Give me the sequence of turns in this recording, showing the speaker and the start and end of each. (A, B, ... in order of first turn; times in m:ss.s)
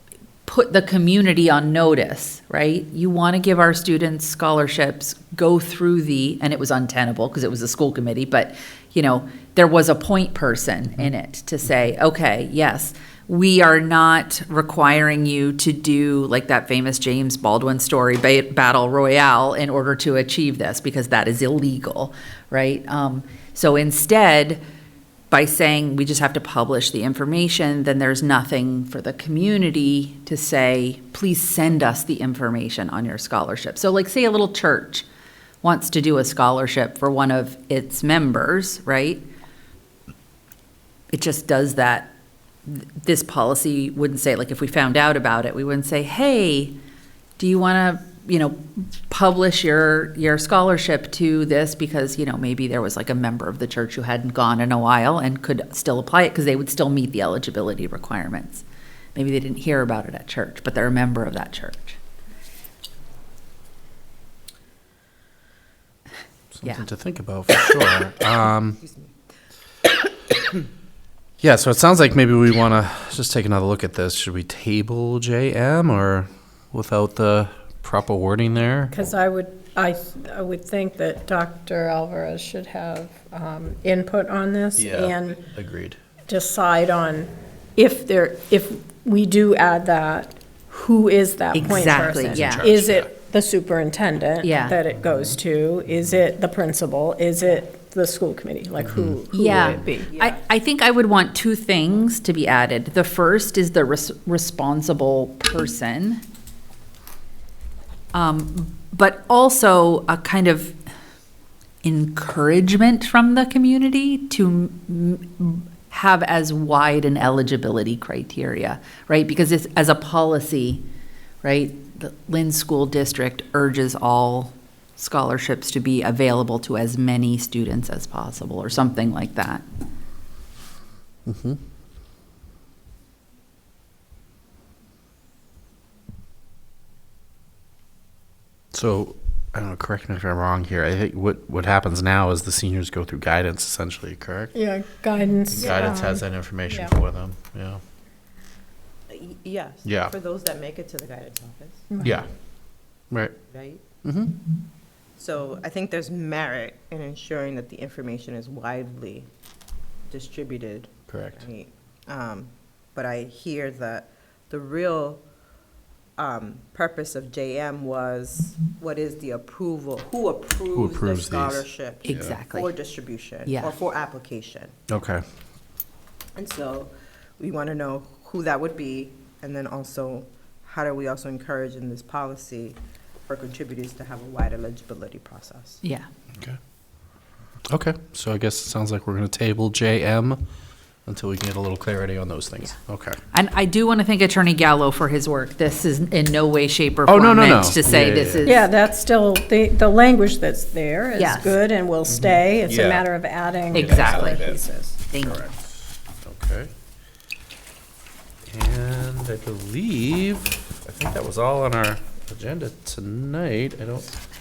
0:00.5-0:24.6 A
0:25.3-0:35.1 A
0:35.6-0:39.2 A
0:41.1-0:42.1 A
0:42.7-0:46.8 A
0:47.4-0:58.6 A
0:59.2-1:02.0 A
1:06.5-1:08.8 B
1:08.8-1:09.1 C
1:11.4-1:19.0 B
1:18.9-1:25.4 D
1:24.8-1:26.0 B
1:26.3-1:40.1 D
1:31.5-1:32.7 A
1:31.9-1:33.1 B
1:34.4-1:34.8 A
1:38.8-1:39.8 B
1:39.3-1:46.2 A
1:40.0-1:40.4 C
1:48.1-1:50.8 A
1:51.8-2:00.8 A
2:01.4-2:09.6 A
2:11.3-2:11.6 B
2:18.7-2:24.6 B
2:24.6-2:26.2 D
2:25.5-2:27.8 B
2:25.6-2:26.1 C
2:29.1-2:32.0 C
2:29.8-2:30.1 B
2:32.0-2:32.3 B
2:33.5-2:33.8 C
2:34.0-2:34.4 B
2:35.2-2:39.3 C
2:40.1-2:45.2 C
2:41.1-2:41.4 B
2:46.2-2:54.8 C
2:50.7-2:52.4 B
2:52.0-2:52.7 A
2:53.5-2:53.8 A
2:54.9-2:55.2 B
2:56.4-3:05.8 C
3:07.7-3:10.4 B
3:11.1-3:13.2 B
3:13.3-3:18.6 A
3:17.1-3:18.5 B
3:18.4-3:25.0 D
3:21.2-3:21.6 A
3:22.1-3:23.1 B
3:23.7-3:24.6 B
3:23.7-3:24.4 A
3:25.1-3:25.4 A
3:25.1-3:26.7 B
3:28.5-3:34.2 B